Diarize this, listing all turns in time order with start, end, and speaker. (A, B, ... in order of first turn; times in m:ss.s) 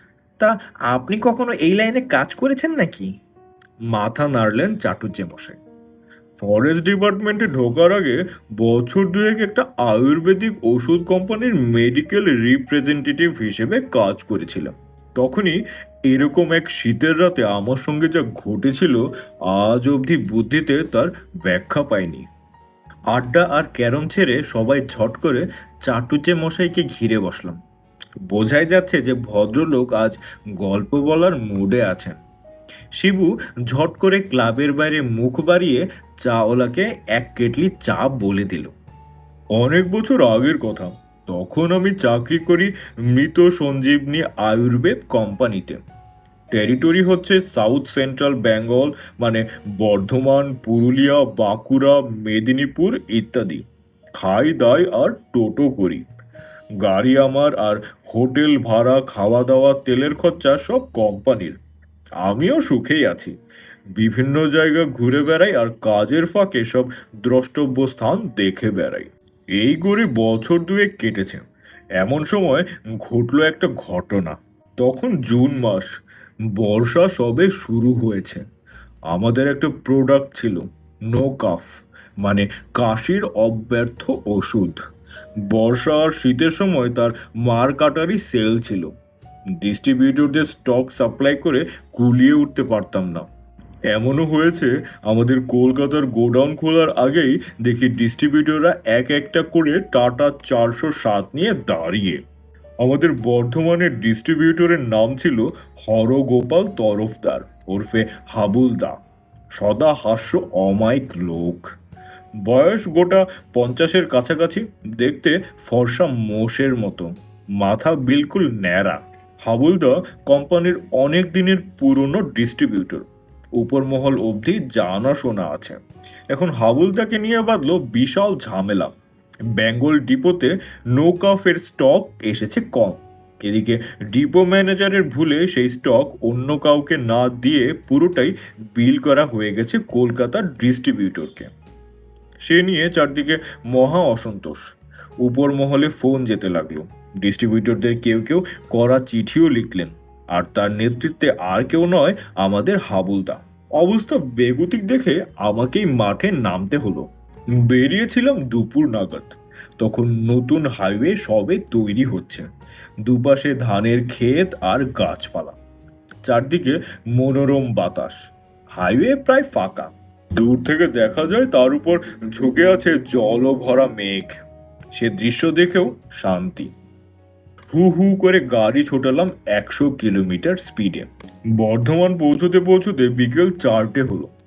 0:00.4-0:03.1 A
0:03.9-0:05.6 A
0:06.4-0:22.3 A
0:23.1-0:27.6 A
0:28.3-0:32.2 A
0:33.0-0:38.7 A
0:39.6-0:45.8 A
0:46.5-0:53.6 A
0:54.2-0:56.0 A
0:56.8-1:01.6 A
1:02.2-1:03.3 A
1:04.0-1:11.4 A
1:12.0-1:15.9 A
1:16.6-1:18.4 A
1:19.1-1:21.7 A
1:22.2-1:24.8 A
1:25.5-1:28.9 A
1:29.6-1:33.3 A
1:33.9-1:42.2 A
1:42.8-1:49.0 A
1:49.6-1:51.7 A
1:52.4-1:57.1 A
1:57.6-2:03.1 A
2:03.6-2:05.8 A
2:06.3-2:09.0 A
2:09.6-2:21.5 A
2:22.4-2:24.7 A
2:25.2-2:37.1 A
2:37.7-2:42.5 A
2:43.0-2:45.6 A
2:46.3-2:54.4 A
2:54.9-2:56.7 A
2:57.7-3:04.3 A